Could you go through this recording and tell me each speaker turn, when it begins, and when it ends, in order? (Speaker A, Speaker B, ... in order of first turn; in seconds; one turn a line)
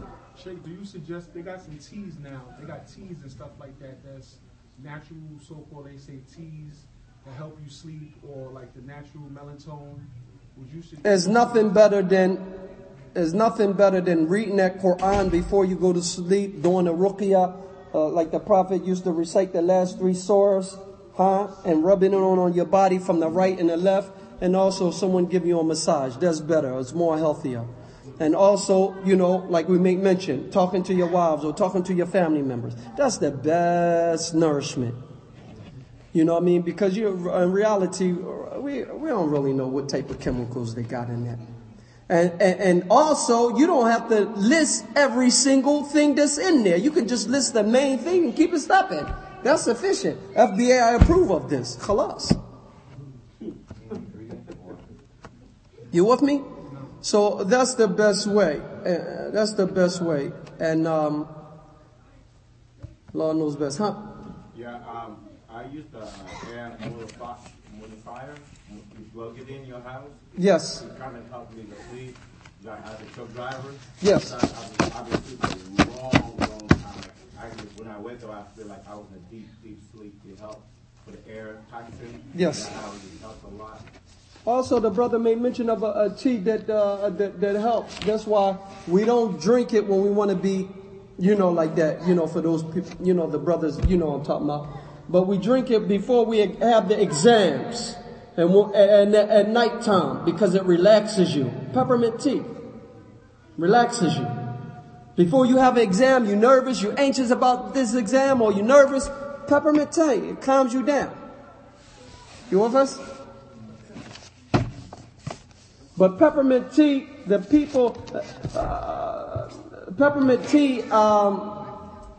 Speaker A: 0.3-11.7
Speaker B: 11.0-12.4
Speaker B: 13.1-35.0
Speaker B: 36.1-41.4
Speaker B: 42.1-52.4
Speaker C: 53.8-54.8
Speaker B: 55.9-56.5
Speaker B: 57.0-61.3
Speaker B: 63.1-64.0
Speaker C: 64.5-83.8
Speaker B: 70.3-70.8
Speaker B: 74.0-74.3
Speaker B: 82.3-82.7
Speaker B: 84.5-102.5
Speaker B: 103.6-104.3
Speaker B: 105.2-111.2
Speaker B: 112.5-113.0
Speaker B: 116.0-121.6